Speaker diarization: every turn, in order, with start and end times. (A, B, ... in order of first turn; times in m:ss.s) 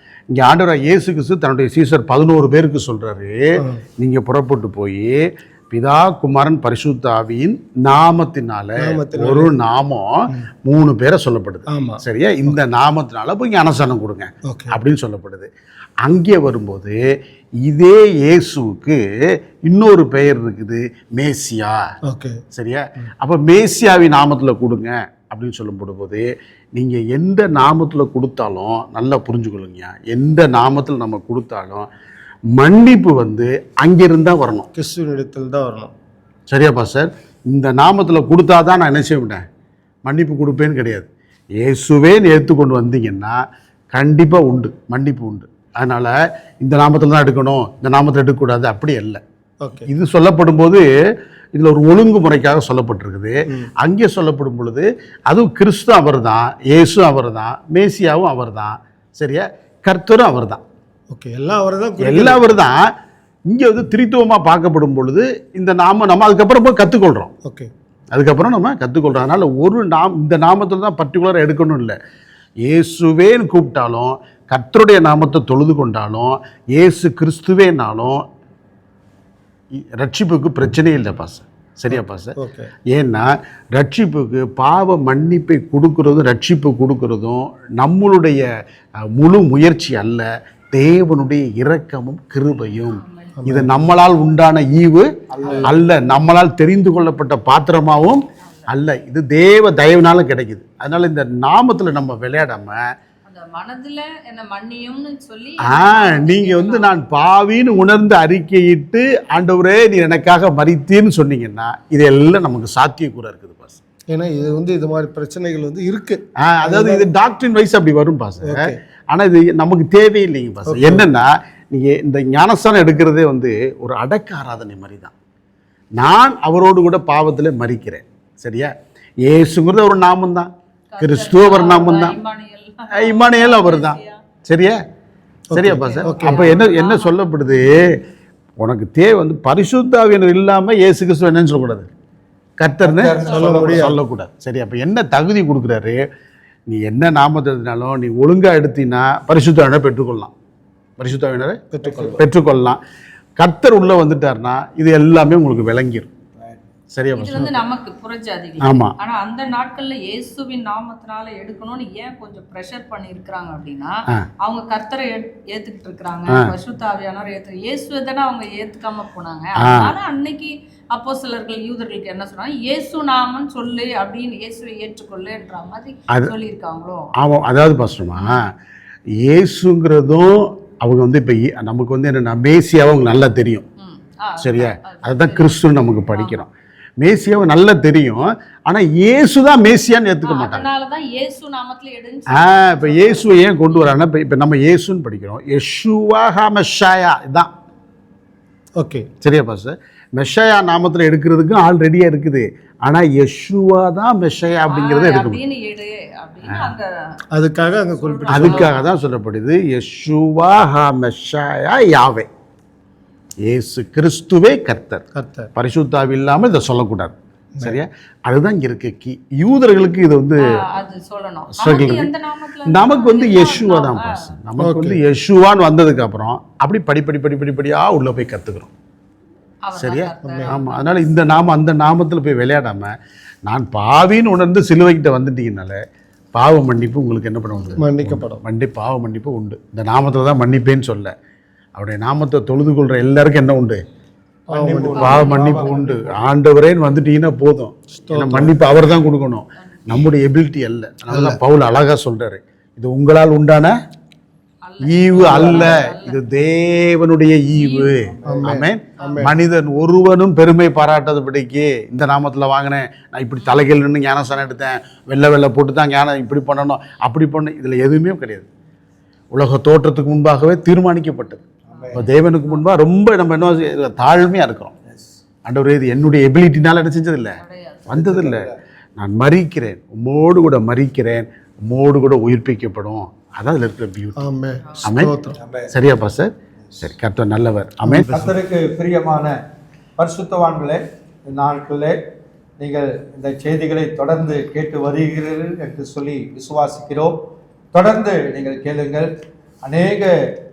0:00.3-0:15.5 A
0:08.8-0:09.5 B
0:11.7-0:12.6 B
0:14.4-0:14.8 B
0:16.0-0:17.0 A
0:17.6-0:19.0 A
0:19.6-0:21.8 A
0:22.1-0:22.4 B
0:22.5-0:31.9 A
0:32.5-0:34.7 A
0:34.7-0:35.9 B
0:36.5-0:39.4 A
0:40.1-0:43.4 A
0:43.9-0:49.2 A
0:49.6-0:49.9 B
0:49.9-0:50.9 A
0:51.5-1:00.6 A
1:01.1-1:02.4 B
1:02.0-1:02.8 A
1:03.5-1:07.3 A
1:07.4-1:07.7 B
1:08.1-1:12.0 A
1:12.6-1:18.2 A
1:19.7-1:22.4 A
1:21.9-1:22.7 B
1:22.9-1:28.5 A
1:29.0-1:35.1 A
1:32.9-1:33.4 C
1:33.4-1:33.8 B
1:35.3-1:35.9 D
1:35.6-1:42.8 A
1:38.4-1:38.7 C
1:43.2-1:46.9 C
1:45.6-1:53.8 A
1:54.1-1:57.0 B
1:56.4-2:05.1 A
1:58.4-1:58.8 B
2:00.6-2:01.0 B
2:06.0-2:12.2 A
2:10.9-2:14.2 C
2:12.9-2:14.8 A
2:15.5-2:16.5 B
2:15.5-2:18.0 A
2:15.8-2:17.2 C
2:18.6-2:21.9 A
2:22.6-2:26.0 A
2:22.8-2:24.0 D
2:23.3-2:24.0 B
2:26.7-2:30.3 A
2:31.0-2:32.8 A
2:31.7-2:32.2 B
2:33.4-2:36.1 A
2:36.9-2:37.6 A
2:37.2-2:57.1 C
2:38.6-2:39.0 A
2:46.3-2:46.5 A
2:49.6-2:50.0 A
2:57.2-2:58.5 A
2:58.2-2:58.5 C
2:59.2-3:03.6 A
3:03.8-3:05.6 C
3:04.4-3:10.7 A
3:06.1-3:06.4 C
3:10.2-3:13.9 C
3:12.3-3:17.5 A
3:18.8-3:19.1 B
3:19.2-3:25.4 A
3:24.7-3:26.9 C
3:26.5-3:26.8 A
3:27.3-3:28.7 B
3:28.0-3:28.9 C
3:28.3-3:32.3 A
3:33.4-3:35.0 A
3:35.2-3:35.5 B
3:35.6-3:40.5 A
3:40.4-3:44.2 C
3:41.5-3:42.1 A
3:42.6-3:48.7 A
3:44.6-3:45.0 B
3:49.6-3:50.8 C
3:49.8-3:55.8 A
3:50.2-3:50.5 B
3:56.4-4:01.1 A
3:57.8-3:58.4 B
4:01.8-4:03.8 A
4:04.5-4:06.2 D
4:04.5-4:05.4 B
4:05.0-4:13.8 A
4:05.0-4:05.8 C
4:08.0-4:08.6 B
4:09.6-4:10.1 C
4:11.1-4:11.4 B
4:14.6-4:16.2 C
4:14.8-4:28.5 A
4:15.2-4:15.6 B
4:15.3-4:15.7 D
4:17.5-4:18.1 C
4:18.2-4:18.5 D
4:18.3-4:19.3 B
4:19.0-4:19.3 C
4:29.3-4:31.4 A
4:31.7-4:32.1 D
4:31.8-4:32.6 C
4:31.9-4:34.7 A
4:35.4-4:44.2 A
4:37.4-4:37.9 C
4:37.9-4:38.6 D
4:44.2-4:45.4 B
4:44.8-4:45.1 A
4:45.4-4:45.7 D
4:45.7-4:48.1 A
4:47.8-4:48.3 B
4:48.1-4:49.4 D
4:50.0-4:52.0 D
4:52.6-4:57.2 D
4:57.7-5:00.2 D